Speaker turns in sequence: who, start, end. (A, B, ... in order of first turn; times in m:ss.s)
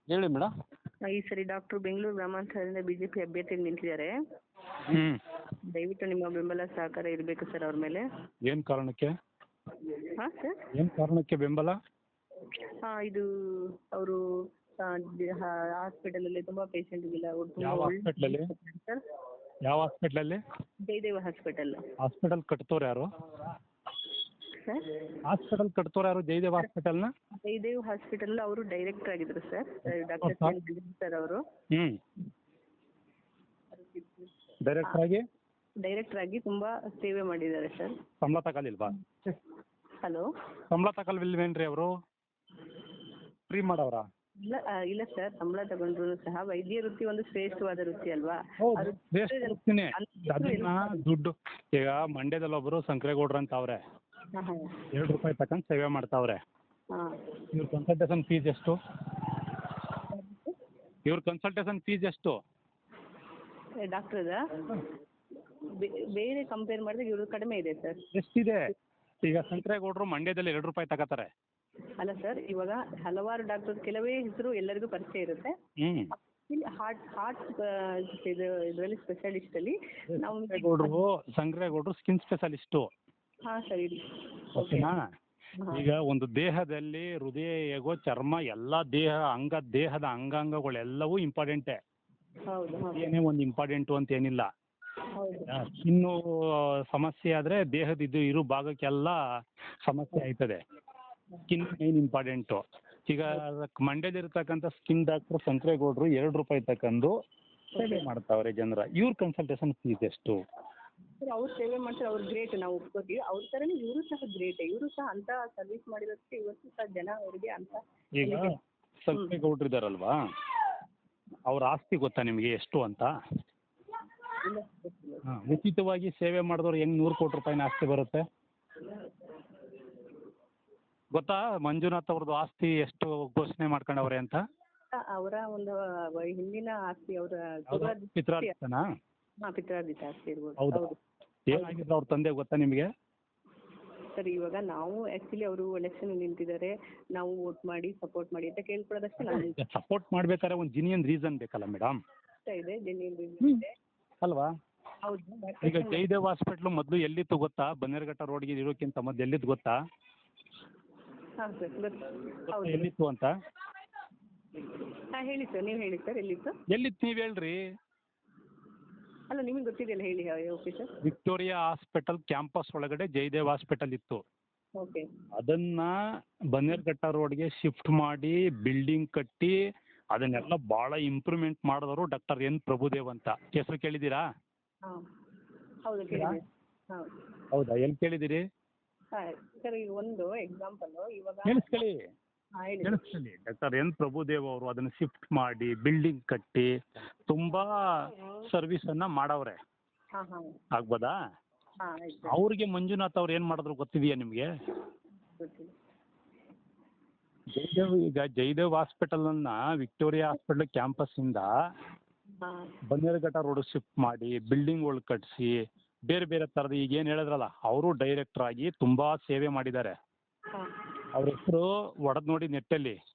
0:00.1-0:00.5 A
0:01.0-0:04.1 B
0:04.9-0:05.2 A
0:05.7-0:08.0 B
0:08.5-0:09.1 A
0:10.2-0:10.6 B
0:10.7-0:11.7 A
0:12.8-0:13.2 B
0:13.9-0:14.2 B
0:14.8-0:19.0 B
0:17.6-0:18.4 A
0:19.6-0:20.4 A
0:20.9-0:21.8 B
0:22.0-0:23.1 A
0:24.6-0:25.1 B
0:25.2-0:27.1 A
0:27.4-0:31.4 B
0:30.2-0:30.6 A
0:31.7-0:32.0 A
0:33.7-0:34.3 B
0:34.6-0:35.2 A
0:35.8-0:38.0 B
0:38.2-0:39.0 A
0:40.7-0:41.9 A
0:43.5-0:44.0 A
0:44.4-0:51.0 B
0:48.6-0:53.8 A
0:54.3-0:54.7 B
0:54.9-0:56.4 A
0:57.5-0:58.8 A
1:00.0-1:00.5 B
1:01.0-1:02.3 A
1:03.8-1:04.4 B
1:05.8-1:08.0 B
1:08.1-1:08.7 A
1:09.2-1:11.3 A
1:12.0-1:15.5 B
1:15.8-1:16.1 A
1:16.4-1:20.9 B
1:20.1-1:22.9 A
1:23.5-1:24.0 B
1:24.5-1:24.9 B
1:24.6-1:25.0 A
1:25.6-1:25.9 B
1:25.7-1:31.8 A
1:32.5-1:33.1 B
1:32.9-1:34.5 A
1:35.2-1:35.5 B
1:35.5-1:39.2 A
1:39.8-1:40.6 A
1:41.5-1:47.1 A
1:47.8-1:48.0 B
1:47.8-1:50.4 A
1:51.2-1:58.5 B
1:58.2-1:58.5 A
1:59.0-2:00.1 A
2:01.5-2:03.1 A
2:04.4-2:05.2 B
2:05.3-2:08.2 A
2:11.1-2:14.4 A
2:15.1-2:18.5 B
2:17.7-2:18.8 A
2:19.4-2:21.0 B
2:20.6-2:20.8 A
2:21.5-2:22.9 A
2:24.2-2:29.6 B
2:29.3-2:32.0 A
2:32.5-2:33.7 B
2:34.2-2:34.5 A
2:35.0-2:36.0 B
2:35.6-2:39.7 A
2:41.4-2:42.9 B
2:42.5-2:43.3 A
2:45.0-2:46.5 B
2:46.7-2:47.6 A
2:49.3-2:50.9 B
2:51.0-2:54.2 A
2:54.8-2:55.0 B
2:55.4-2:55.9 A
2:56.5-2:59.5 A
3:00.1-3:04.2 A
3:05.8-3:07.1 B
3:06.1-3:06.4 A
3:07.5-3:08.4 A
3:09.1-3:11.8 B
3:11.4-3:12.0 A
3:12.6-3:13.0 B
3:12.8-3:16.7 A
3:17.3-3:19.6 A
3:20.1-3:20.5 B
3:20.7-3:21.1 A
3:21.8-3:22.4 B
3:22.3-3:24.5 A
3:25.4-3:25.7 B
3:27.5-3:31.5 A
3:32.4-3:32.7 B
3:32.9-3:35.5 A
3:36.1-3:39.9 A
3:41.1-3:43.0 A